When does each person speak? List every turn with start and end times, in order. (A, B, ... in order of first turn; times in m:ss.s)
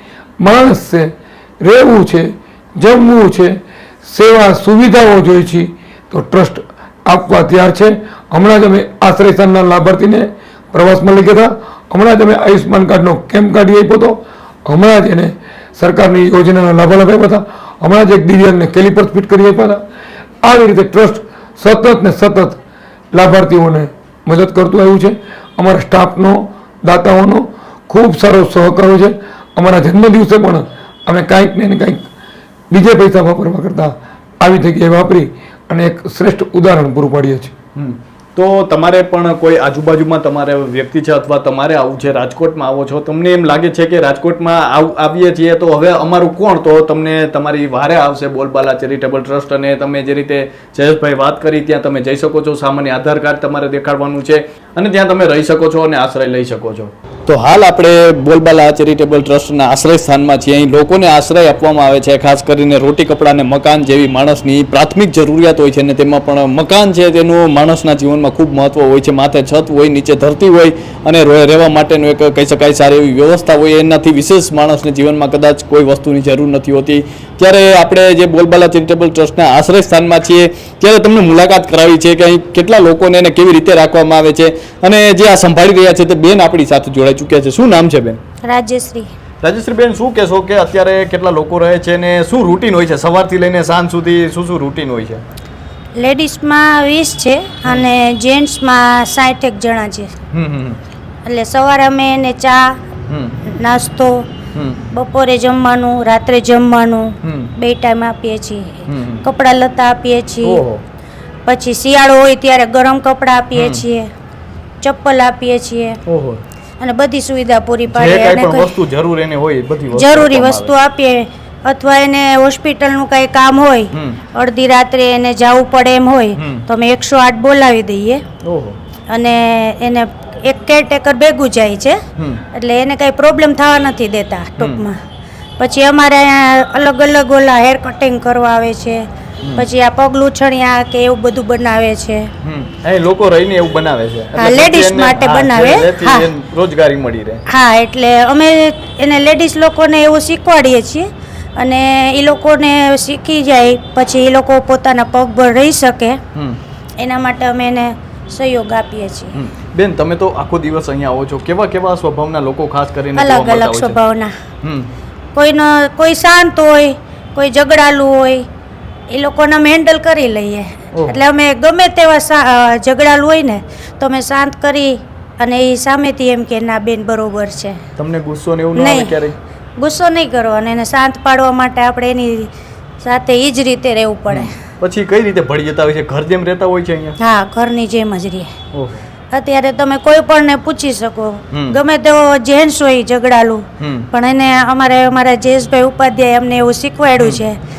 0:00.4-0:19.8 A
0:20.4-0:22.6 A
0:23.1-0:32.1 A
0:32.7-0:37.5 A
0:37.8-1:28.2 B
1:28.4-1:29.1 C
1:29.4-1:35.2 B
1:36.0-1:40.1 C
1:40.3-1:40.8 B
1:41.2-1:42.8 C
1:43.1-1:43.4 B
1:43.5-1:44.3 C
1:44.6-1:44.8 B
1:44.9-1:50.6 C
1:47.2-1:47.5 B
1:48.9-1:49.2 B
1:50.4-1:50.8 B
1:51.5-1:54.1 C
1:53.6-1:53.8 B
1:54.8-1:56.0 C
1:56.1-1:56.4 B
1:56.8-1:58.7 C
1:57.9-2:00.7 B
1:59.9-2:08.2 C
2:03.9-2:04.2 B
2:06.4-2:06.6 B
2:08.4-2:08.8 B
2:09.1-2:12.0 C
2:12.2-2:12.4 B
2:12.5-2:15.0 C
2:14.6-2:14.8 B
2:15.6-2:22.3 C
2:22.4-2:27.4 B
2:24.4-2:26.3 C
2:27.5-2:36.2 C
2:36.4-2:36.6 B
2:37.0-2:39.4 C
2:39.3-2:44.0 B
2:43.2-2:44.3 C
2:44.6-2:44.9 B
2:45.4-2:48.5 C
2:49.1-2:57.8 C
2:50.9-2:51.2 B
2:58.0-2:59.4 B
2:58.8-2:59.1 C
2:59.8-3:02.5 C
3:03.0-3:04.6 C
3:04.3-3:07.2 B
3:07.2-3:08.5 C
3:08.7-3:09.0 B
3:09.3-3:17.6 C
3:11.5-3:11.8 B
3:13.8-3:14.1 B
3:17.2-3:17.4 B